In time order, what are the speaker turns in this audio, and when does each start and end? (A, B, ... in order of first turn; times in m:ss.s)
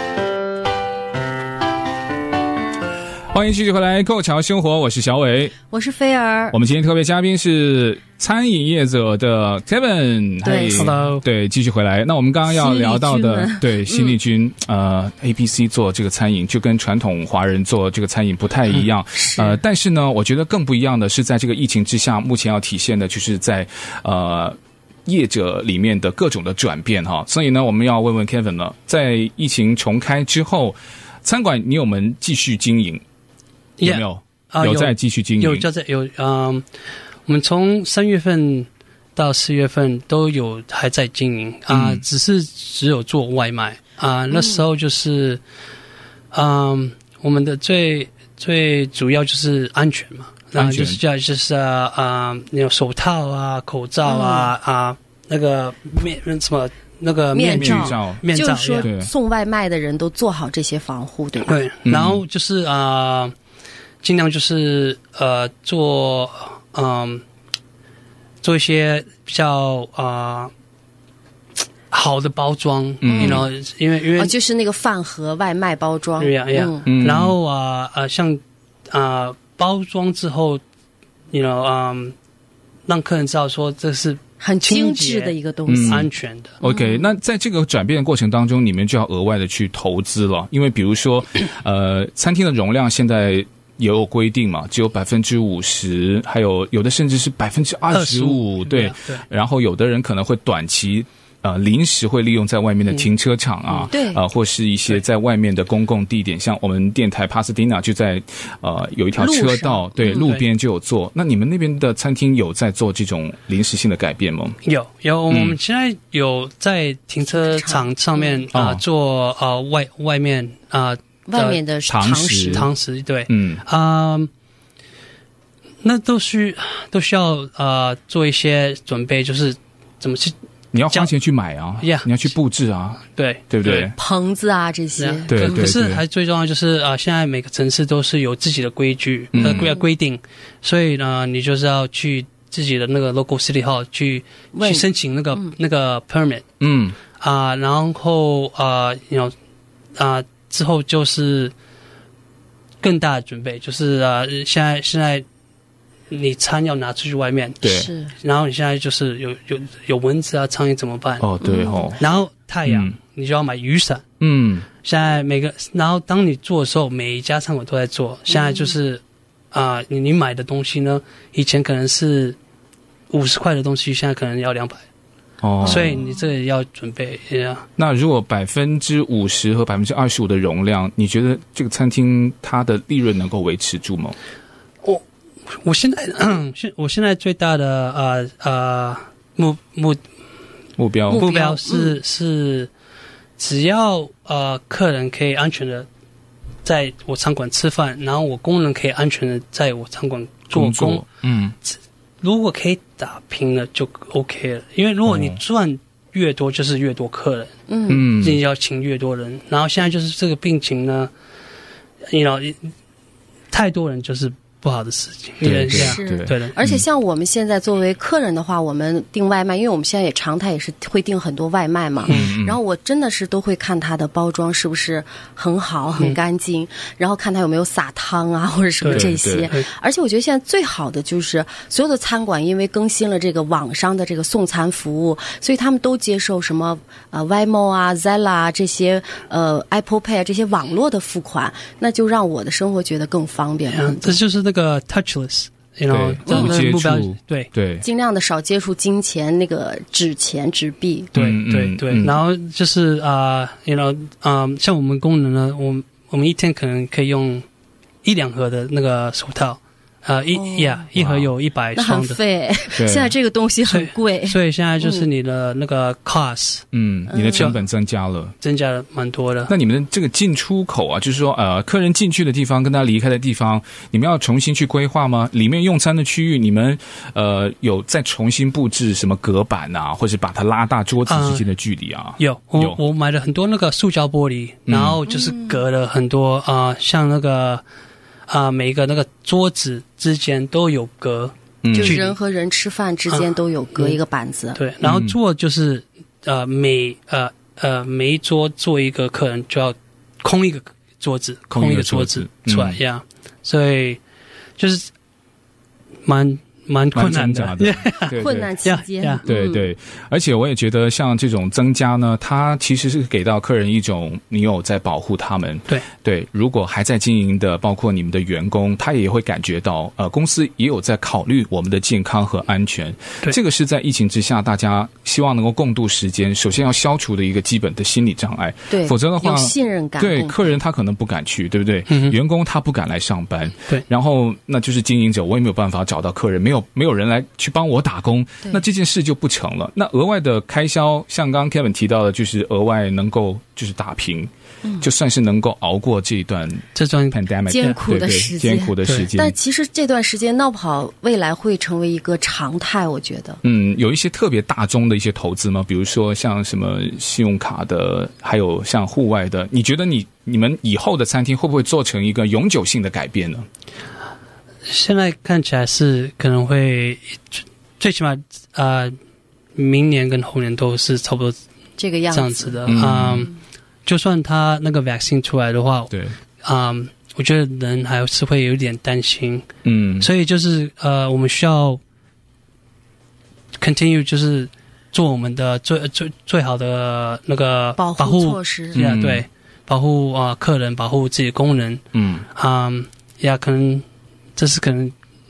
0:03.3-0:05.6 A
0:05.7-0:06.6 B
0:06.5-0:33.0 A
0:10.4-0:10.9 B
0:10.7-0:11.2 C
0:12.5-0:14.2 B
0:19.2-0:19.6 B
0:33.8-0:36.6 C
0:33.8-0:35.7 A
0:37.3-0:45.4 C
0:41.7-0:42.0 A
0:44.3-0:44.6 B
0:46.3-0:58.9 C
0:50.5-0:51.0 A
0:54.0-0:54.5 B
0:57.3-1:01.6 B
0:57.5-0:58.2 A
0:58.8-0:59.1 A
1:01.4-1:03.4 C
1:01.9-1:02.2 A
1:04.0-1:07.2 C
1:08.4-1:10.5 C
1:11.9-1:14.3 C
1:13.0-1:13.5 A
1:13.1-1:13.5 B
1:14.2-1:16.9 B
1:16.2-1:20.6 C
1:16.8-1:17.4 A
1:21.3-1:22.2 C
1:22.9-1:26.6 C
1:24.4-1:26.1 B
1:25.7-1:26.1 A
1:26.6-1:27.1 B
1:26.6-1:54.6 A
1:37.9-1:39.2 C
1:43.8-1:44.2 B
1:49.2-1:50.3 B
1:50.1-1:50.4 C
1:54.6-2:01.6 C
1:55.3-1:55.6 A
1:57.3-1:58.4 B
1:58.5-1:58.8 A
2:01.3-2:02.7 B
2:01.9-2:02.7 A
2:02.5-2:04.3 C
2:03.3-2:03.6 A
2:05.8-2:10.4 C
2:10.7-2:14.0 A
2:11.8-2:12.3 C
2:13.1-2:13.9 C
2:14.0-2:15.7 B
2:15.0-2:26.4 C
2:15.3-2:16.0 A
2:19.3-2:19.7 A
2:19.4-2:19.8 B
2:24.6-2:25.5 B
2:26.6-2:27.0 A
2:27.2-2:29.3 C
2:30.0-2:31.5 C
2:32.8-2:35.2 C
2:36.1-2:37.6 C
2:37.6-2:37.9 A
2:37.6-2:38.1 B
2:38.2-2:41.3 C
2:41.2-2:42.0 A
2:41.4-2:41.9 B
2:42.0-2:44.0 C
2:42.7-2:43.0 A
2:44.2-2:44.7 A
2:44.8-2:52.4 C
2:48.3-2:48.7 B
2:53.1-2:54.8 C
2:55.4-2:56.0 A
2:55.6-2:57.6 C
2:55.6-2:56.2 B
2:57.8-3:04.2 A
3:04.8-3:10.0 C
3:10.8-3:11.3 A
3:11.1-3:12.0 B
3:11.1-3:12.7 C
3:13.4-3:15.9 C
3:16.6-3:21.0 C
3:20.5-3:21.6 A
3:21.7-3:27.5 C
3:25.1-3:25.4 A
3:27.7-3:28.1 B
3:27.9-3:28.4 A
3:28.1-3:31.1 C
3:32.1-3:32.7 C
3:33.5-3:36.6 C
3:35.4-3:36.8 A
3:35.7-4:04.2 B
3:42.1-3:42.6 A
3:48.8-3:49.7 C
3:48.9-3:49.5 A
4:03.7-4:07.5 C
4:05.9-4:07.8 A
4:06.3-4:06.6 B
4:07.8-4:11.1 B
4:11.1-4:12.2 A
4:11.2-4:17.4 C
4:18.0-4:22.2 C
4:20.3-4:20.9 B
4:21.0-4:21.3 A
4:21.8-4:25.1 B
4:22.8-4:23.2 A
4:23.7-4:26.6 C
4:26.7-4:28.4 A
4:27.1-4:27.5 B
4:28.4-4:29.5 C
4:29.5-4:42.8 A
4:41.1-4:41.5 C
4:42.2-4:47.6 C
4:44.7-4:45.0 A
4:45.1-4:45.6 B
4:48.3-4:52.2 C
4:51.6-4:52.0 A
4:51.7-4:54.6 B
4:53.1-4:54.0 C
4:54.6-5:04.0 C
4:54.8-4:55.2 A
5:01.5-5:02.8 A
5:04.6-5:04.9 C
5:06.1-5:08.1 C
5:06.9-5:08.5 A
5:08.1-5:09.7 B
5:08.6-5:09.2 C
5:09.2-5:49.4 A
5:28.7-5:30.6 B
5:31.9-5:32.2 C
5:46.8-5:47.8 C
5:47.5-5:53.4 B
5:48.8-5:49.1 C
5:53.4-6:03.5 A
6:04.7-6:09.0 C
6:09.6-6:11.4 C
6:11.8-6:12.8 B
6:12.1-6:13.3 C
6:12.7-6:13.3 A
6:13.9-6:19.5 C
6:19.6-6:20.1 A
6:20.0-6:21.8 C
6:23.6-6:33.8 C
6:27.8-6:28.8 B
6:28.7-6:29.2 A
6:31.9-6:32.3 A
6:34.4-6:34.9 C